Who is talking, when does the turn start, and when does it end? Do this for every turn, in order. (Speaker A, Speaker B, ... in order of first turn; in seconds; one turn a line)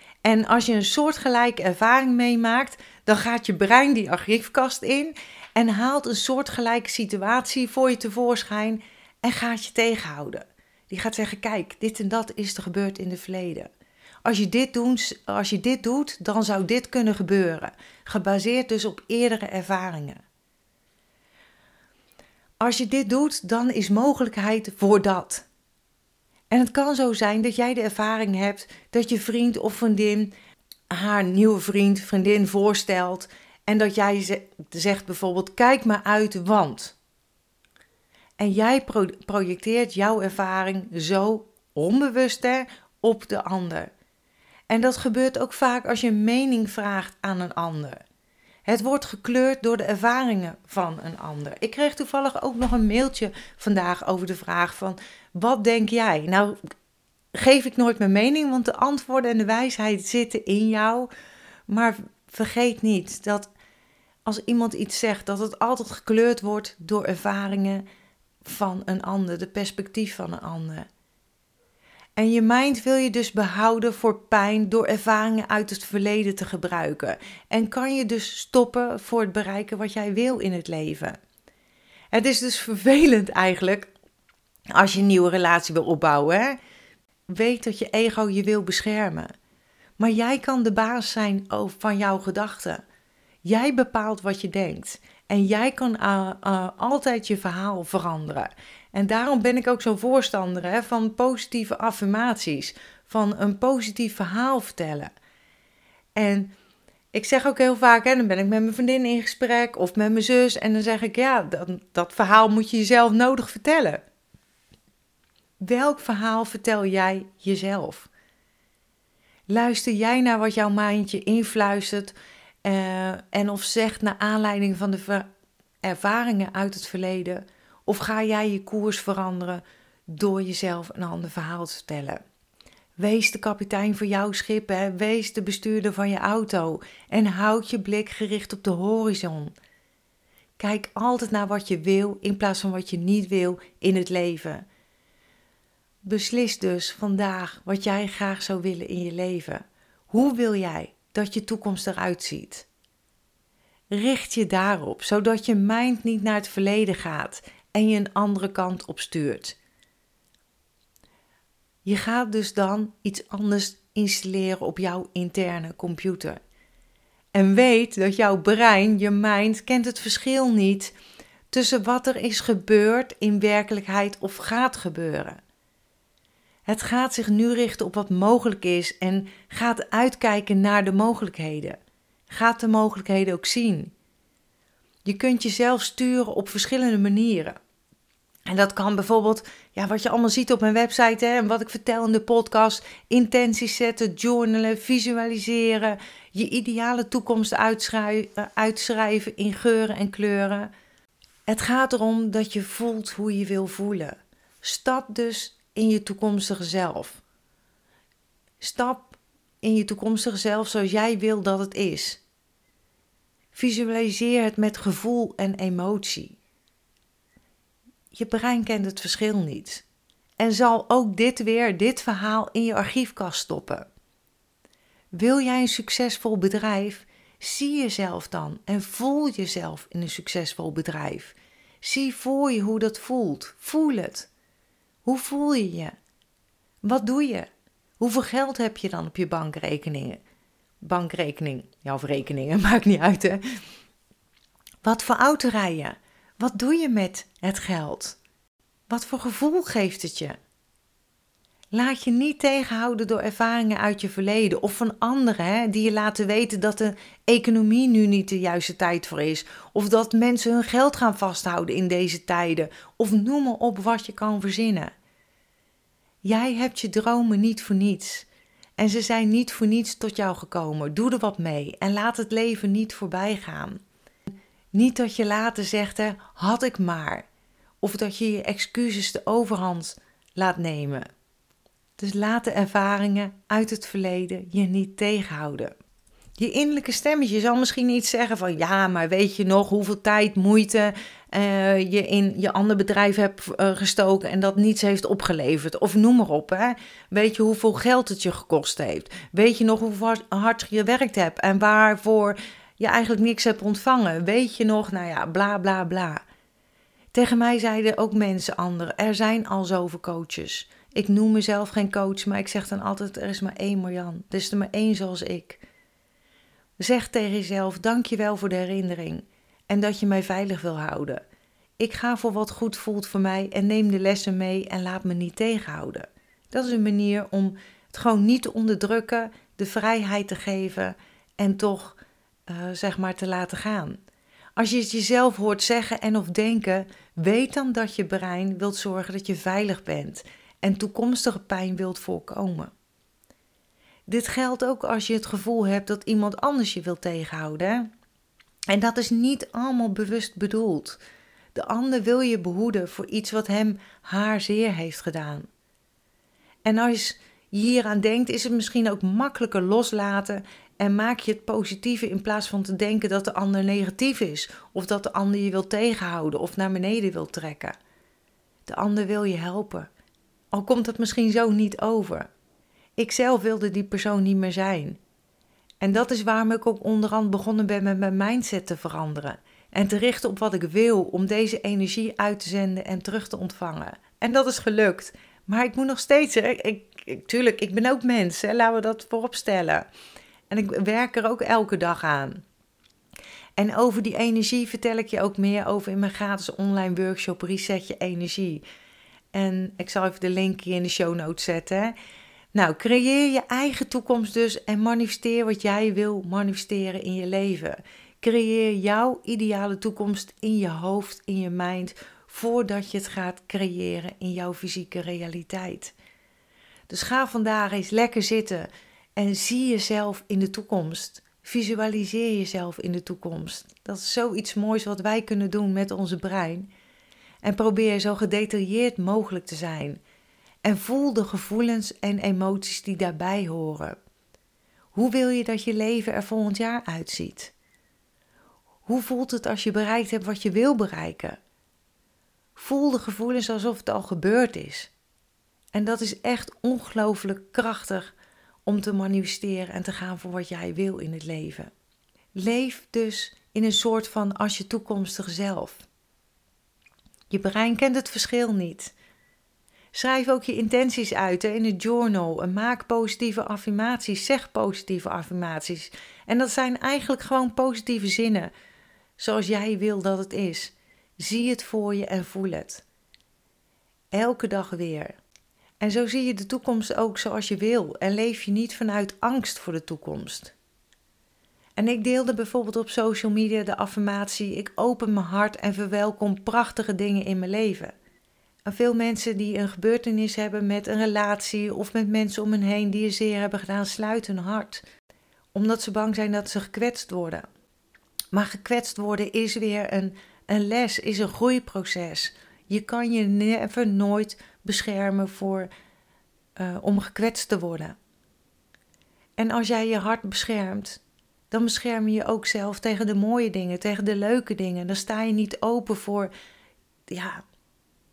Speaker A: 0.2-13.7
Speaker A: 14.2-20.2
Speaker A: 22.6-25.5
Speaker A: 26.5-30.3
Speaker A: 30.9-37.0
Speaker A: 38.4-43.9
Speaker A: 44.7-48.0
Speaker A: 48.7-56.6
Speaker A: 57.4-61.1
Speaker A: 61.7-63.5
Speaker A: 64.3-67.8
Speaker A: 68.4-70.9
Speaker A: 72.2-81.2
Speaker A: 82.1-83.9
Speaker A: 84.7-86.6
Speaker A: 87.3-89.3
Speaker A: 90.0-92.8
Speaker A: 93.5-105.1
Speaker A: 106.2-106.5
Speaker A: 107.1-114.0
Speaker A: 115.6-118.1
Speaker A: 119.5-125.3
Speaker A: 125.8-132.2
Speaker A: 133.0-139.5
Speaker A: 140.6-144.7
Speaker A: 146.0-152.7
Speaker A: 153.9-159.6
Speaker A: 161.8-166.4
Speaker A: 167.3-170.9
Speaker A: 171.5-175.4
Speaker A: 176.7-181.8
Speaker A: 182.3-183.9
Speaker A: 185.1-187.6
Speaker A: 188.5-200.7
Speaker A: 201.5-207.2
Speaker A: 208.6-212.2
Speaker A: 213.5-216.4
Speaker A: 218.1-219.8
Speaker A: 220.4-223.9
Speaker A: 225.1-234.3
Speaker A: 235.1-235.9
Speaker A: 236.8-237.5
Speaker A: 238.0-240.2
Speaker A: 240.8-243.4
Speaker A: 244.8-248.2
Speaker A: 248.9-250.4
Speaker A: 251.7-264.9
Speaker A: 266.2-268.3
Speaker A: 268.8-273.8
Speaker A: 274.7-277.3
Speaker A: 277.8-281.1
Speaker A: 282.0-285.7
Speaker A: 286.4-306.2
Speaker A: 307.1-315.6
Speaker A: 316.8-321.2
Speaker A: 321.8-332.0
Speaker A: 332.5-334.0
Speaker A: 334.6-342.7
Speaker A: 344.1-347.9
Speaker A: 348.7-351.0
Speaker A: 351.6-355.5
Speaker A: 356.6-367.8
Speaker A: 368.7-369.9
Speaker A: 370.5-372.3
Speaker A: 373.0-375.0
Speaker A: 375.8-389.9
Speaker A: 390.5-392.4
Speaker A: 393.6-398.6
Speaker A: 399.3-401.9
Speaker A: 402.5-415.9
Speaker A: 416.9-426.7
Speaker A: 427.4-430.0
Speaker A: 430.6-434.0
Speaker A: 434.9-437.5
Speaker A: 438.9-441.4
Speaker A: 442.6-444.9
Speaker A: 445.7-448.1
Speaker A: 448.7-451.7
Speaker A: 452.4-455.9
Speaker A: 457.3-458.9
Speaker A: 459.9-468.5
Speaker A: 469.2-472.8
Speaker A: 474.1-475.2
Speaker A: 475.8-480.5
Speaker A: 481.8-487.9
Speaker A: 488.7-494.8
Speaker A: 495.6-497.5
Speaker A: 498.3-505.7
Speaker A: 506.6-508.0
Speaker A: 509.4-516.3
Speaker A: 517.1-517.4